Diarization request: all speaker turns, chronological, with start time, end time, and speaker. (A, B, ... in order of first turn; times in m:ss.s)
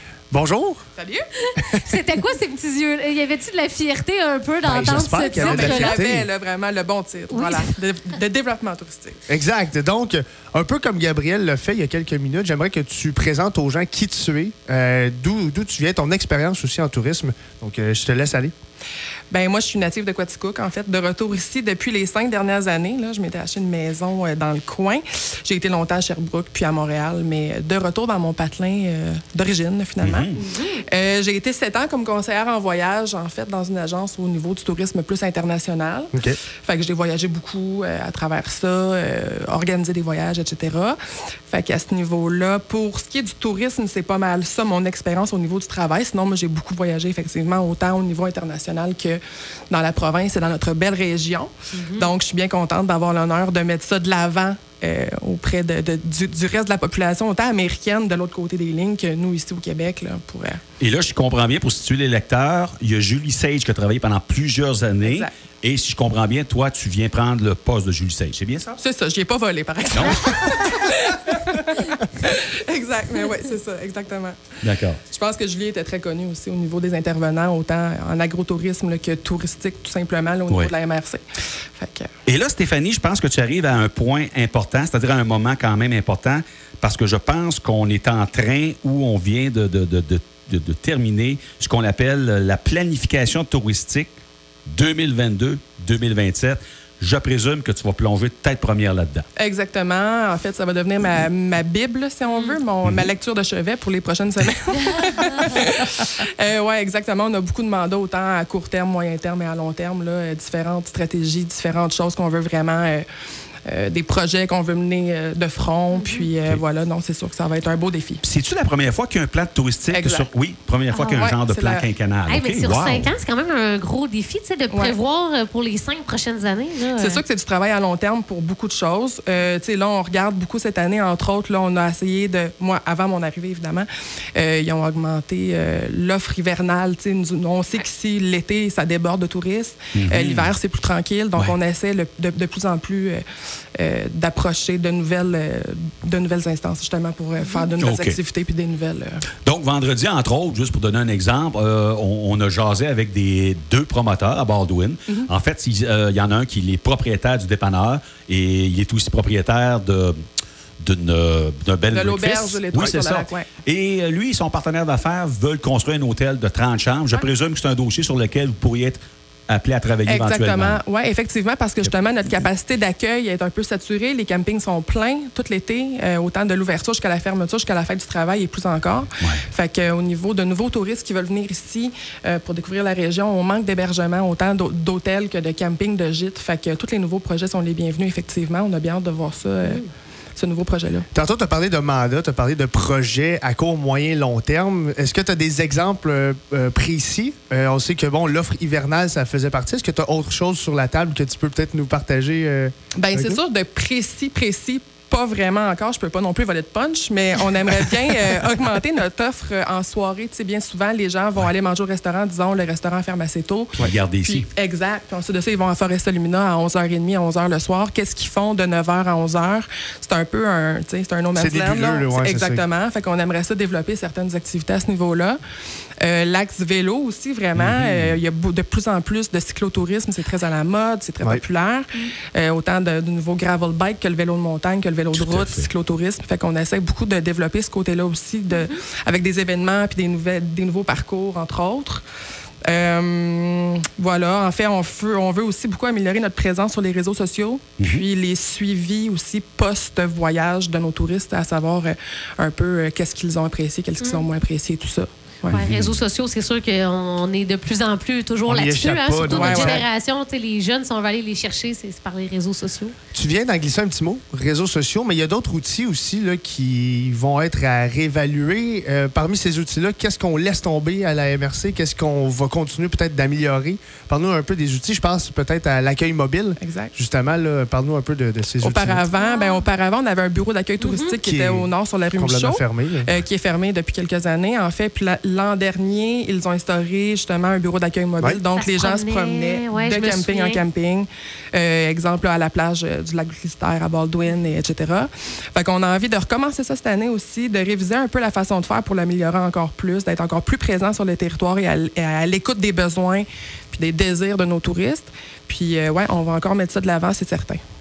0:00.3-0:00.8 A
0:01.0-0:01.3 B
0:01.4-0:06.0 C
0:04.6-0:06.2 A
0:05.3-0:09.2 B
0:07.3-0:07.7 C
0:09.3-0:18.5 A
0:19.3-0:41.0 B
0:30.0-0:30.4 D
0:30.4-0:30.8 C
0:41.5-0:49.2 B
0:49.7-1:00.6 B
0:51.7-0:52.1 C
1:00.8-1:08.8 D
1:05.0-1:05.3 B
1:08.8-1:21.2 B
1:09.9-1:10.5 D
1:14.6-1:15.0 D
1:21.8-1:22.1 B
1:22.2-1:34.1 D
1:34.7-1:39.2 D
1:39.4-1:53.0 B
1:44.9-1:45.4 C
1:53.6-1:58.2 B
1:55.9-1:56.3 C
1:58.2-2:03.1 D
1:59.9-2:00.3 B
2:00.9-2:01.2 C
2:01.1-2:01.8 B
2:02.2-2:07.2 C
2:04.7-2:05.0 B
2:07.0-2:23.2 B
2:19.9-2:20.5 D
2:23.8-2:29.2 B
2:27.8-2:28.2 D
2:29.4-2:40.2 D
2:40.8-2:50.8 D
2:41.9-2:43.5 B
2:50.0-3:09.8 B
2:59.2-2:59.4 D
3:09.6-3:09.9 C
3:10.4-3:11.1 B
3:11.1-3:23.4 A
3:23.0-3:45.4 B
3:33.8-3:34.5 D
3:41.3-3:42.6 A
3:46.0-4:02.0 B
3:47.6-3:48.2 D
3:55.1-3:55.7 D
3:58.5-3:58.8 C
4:02.6-4:15.6 B
4:07.8-4:08.0 D
4:14.0-4:14.3 C
4:15.5-4:22.9 C
4:15.5-4:16.0 D
4:18.4-4:19.8 A
4:19.3-4:19.8 B
4:23.1-4:39.0 A
4:36.6-4:36.9 B
4:38.6-5:07.6 B
4:39.2-4:39.6 C
4:40.8-4:41.2 C
4:41.2-4:43.2 A
4:48.5-4:50.6 C